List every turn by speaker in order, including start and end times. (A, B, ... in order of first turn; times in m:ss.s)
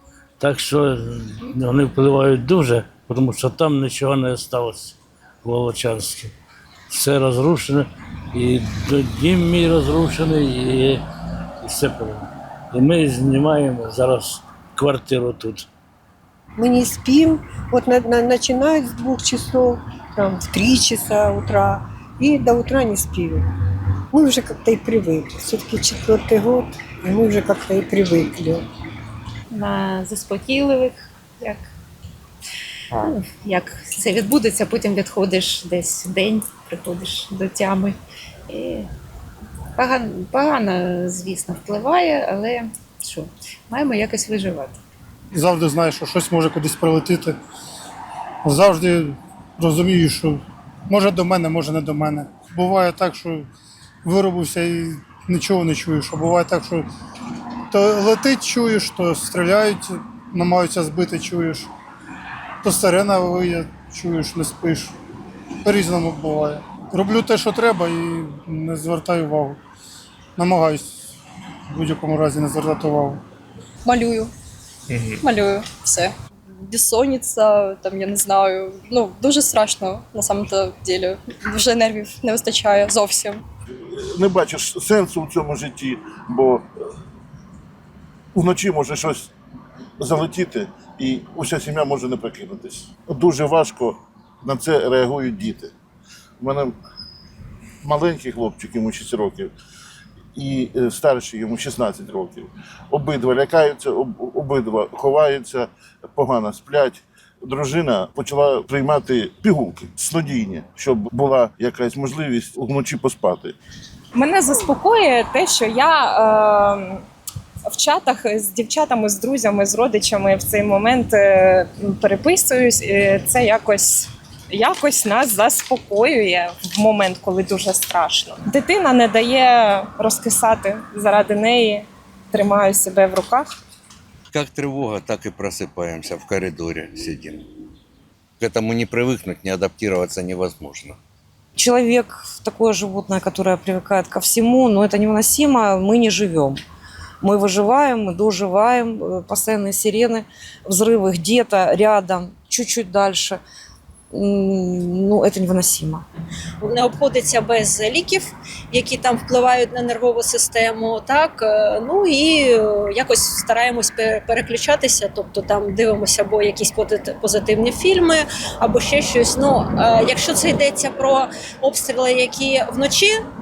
0:00.4-0:06.3 A
0:06.9-0:11.0 A
0:11.6-0:15.6 A
0:16.6-0:23.5 B
0:24.1-0:28.7 B
0:29.5-0:31.6 C
0:33.0-0:38.0 C
0:38.5-0:38.9 C
0:39.8-0:44.8 C
0:45.4-0:47.4 D
0:48.4-0:53.5 D
0:54.0-0:56.9 D
0:57.7-1:01.7 D
1:02.6-1:04.9 D
1:05.6-1:09.6 D
1:10.4-1:11.0 D
1:11.7-1:13.2 D
1:13.8-1:14.3 E
1:15.2-1:23.4 E
1:23.9-1:26.7 F
1:28.3-1:29.3 F
1:30.0-1:35.7 F
1:36.4-1:36.7 F
1:37.8-1:39.5 F
1:40.4-1:53.6 F
1:54.1-1:57.0 G
1:57.7-2:13.6 G
2:14.3-2:17.4 H
2:18.4-2:21.0 H
2:21.6-2:26.6 I
2:27.2-2:33.4 I
2:34.1-2:36.0 I
2:36.6-2:53.1 J